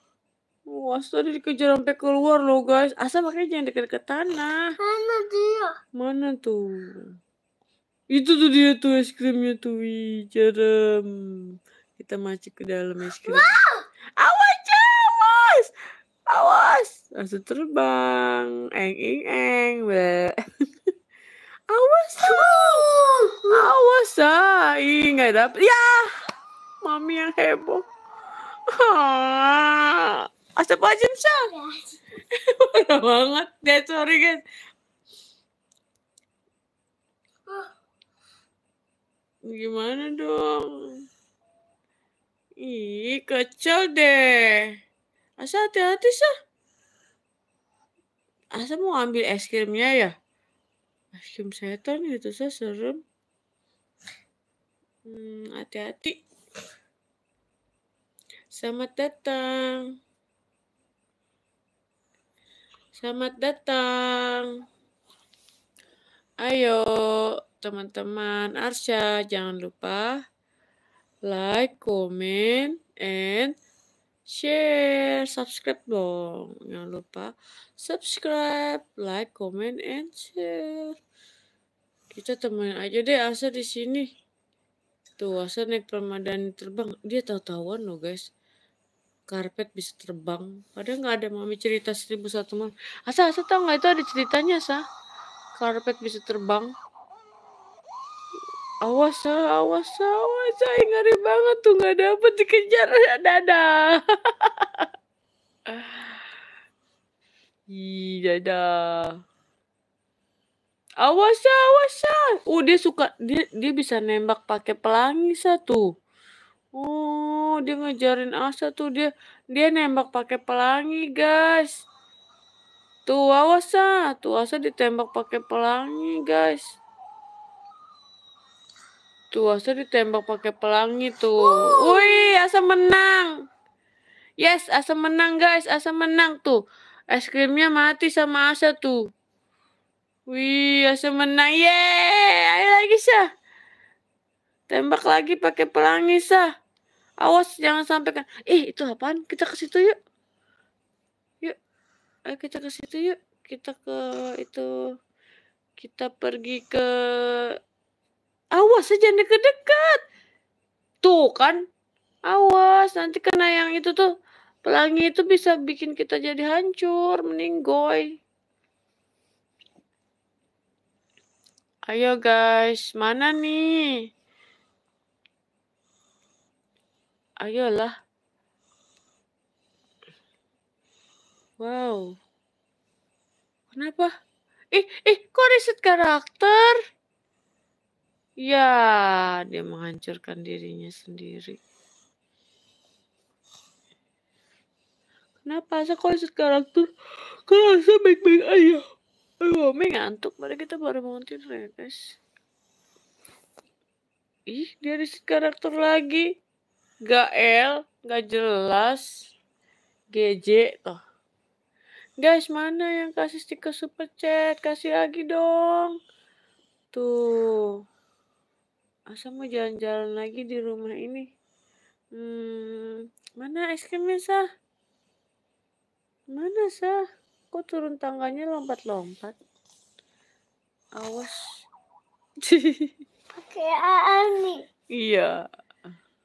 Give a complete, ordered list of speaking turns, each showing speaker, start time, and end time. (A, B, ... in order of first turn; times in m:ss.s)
0:00.7-0:04.6 A
0:04.8-0:05.7 B
0:06.0-0:07.0 A
0:08.1-0:13.6 A
0:13.3-0:13.8 B
0:14.2-0:15.7 A
0:16.3-0:20.4 A
0:21.7-0:22.8 A
0:22.2-0:23.6 B
0:23.5-0:26.1 A
0:26.8-0:27.8 A
0:28.7-0:31.5 A
0:31.5-0:31.8 B
0:32.5-0:34.4 A
0:39.5-0:41.0 A
0:42.6-0:44.7 A
0:45.4-0:46.3 A
0:48.6-0:50.1 A
0:51.2-0:53.0 A
0:55.1-0:56.2 A
0:58.6-0:59.8 A
1:03.0-1:04.5 A
1:06.4-1:10.2 A
1:11.3-1:13.5 A
1:14.3-1:20.9 A
1:22.1-1:24.1 A
1:25.2-1:28.3 A
1:29.3-1:34.8 A
1:35.6-1:36.7 A
1:38.8-1:44.9 A
1:45.7-1:46.2 A
1:47.7-1:49.1 A
1:51.0-1:55.8 A
1:56.8-2:01.7 A
2:03.1-2:06.6 A
2:09.3-2:13.3 A
2:11.5-2:12.1 B
2:14.4-2:16.6 A
2:17.1-2:19.0 A
2:20.3-2:23.3 A
2:24.7-2:26.5 A
2:27.2-2:30.0 A
2:32.3-2:34.7 A
2:35.8-2:37.6 A
2:38.6-2:40.0 A
2:41.0-2:41.6 A
2:42.3-2:44.1 A
2:44.6-2:48.1 A
2:51.9-2:54.0 A
2:57.4-2:57.9 A
3:01.6-3:02.2 A
3:03.7-3:04.1 A
3:04.7-3:06.8 A
3:08.4-3:11.6 A
3:15.4-3:16.9 A
3:17.5-3:18.8 A
3:19.4-3:22.2 A
3:24.5-3:26.3 A
3:27.1-3:29.3 A
3:30.1-3:31.0 A
3:32.2-3:36.0 A
3:36.9-3:37.8 A
3:39.1-3:41.3 A
3:42.1-3:44.4 A
3:46.3-3:47.0 A
3:47.5-3:49.4 A
3:51.0-3:51.6 A
3:52.4-3:52.9 A
3:53.4-3:54.6 B
3:54.9-3:55.4 A